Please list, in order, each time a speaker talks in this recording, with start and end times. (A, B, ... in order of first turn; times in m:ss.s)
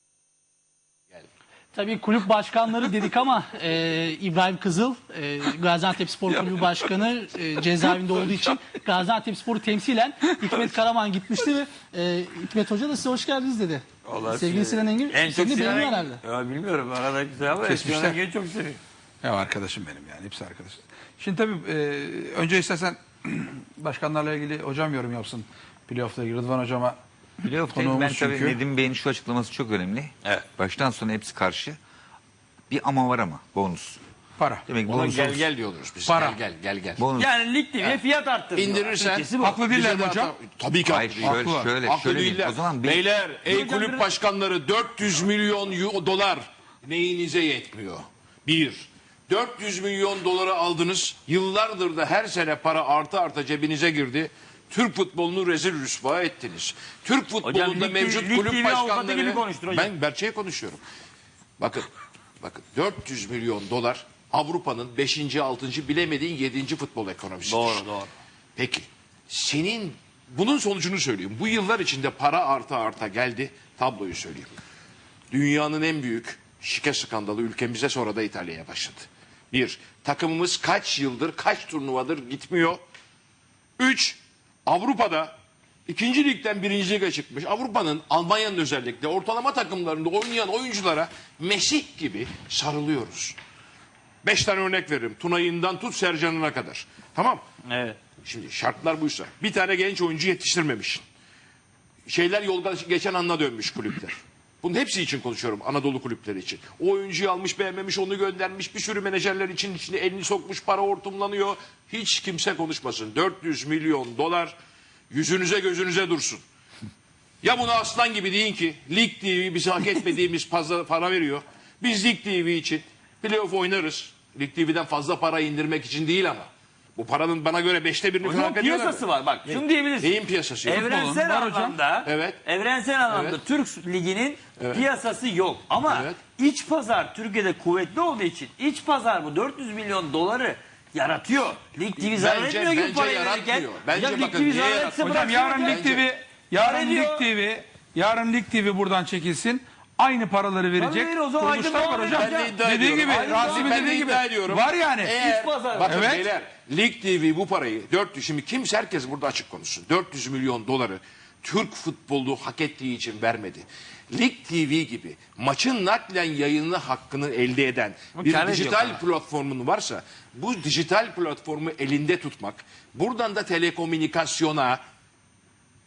0:01.7-0:16.2 A
0:14.0-0:18.8 B
0:17.6-0:18.2 C
0:19.2-0:27.0 C
0:27.4-0:31.8 D
0:27.6-0:28.6 C
0:32.7-0:34.0 D
0:34.4-0:34.6 C
0:34.6-0:35.5 D
0:34.8-0:37.1 E
0:36.0-0:36.4 C
0:37.0-0:37.3 D
0:37.2-0:39.7 B
0:37.8-0:38.0 E
0:38.5-1:00.8 E
0:39.4-0:40.3 C
0:40.9-0:43.0 D
0:41.2-0:41.7 C
0:43.5-0:44.1 B
0:57.4-0:59.9 B
1:01.6-1:01.9 E
1:02.4-1:07.9 E
1:07.4-1:08.1 B
1:08.6-1:14.6 E
1:15.3-1:22.8 E
1:23.8-1:25.4 E
1:25.9-1:33.4 E
1:34.2-1:37.4 E
1:37.6-1:38.0 B
1:38.2-1:41.0 E
1:42.1-1:54.6 E
1:55.1-1:56.4 E
1:57.4-2:10.9 E
2:08.2-2:25.8 B
2:10.8-2:11.8 C
2:11.9-2:12.4 E
2:13.0-2:13.4 E
2:14.5-2:14.9 E
2:15.7-2:16.2 E
2:21.7-2:26.1 E
2:24.9-2:35.2 C
2:26.6-2:27.3 B
2:30.8-2:32.6 B
2:32.1-2:54.8 E
2:33.1-2:33.9 B
2:35.2-2:36.0 B
2:35.8-2:36.3 C
2:48.1-2:49.0 B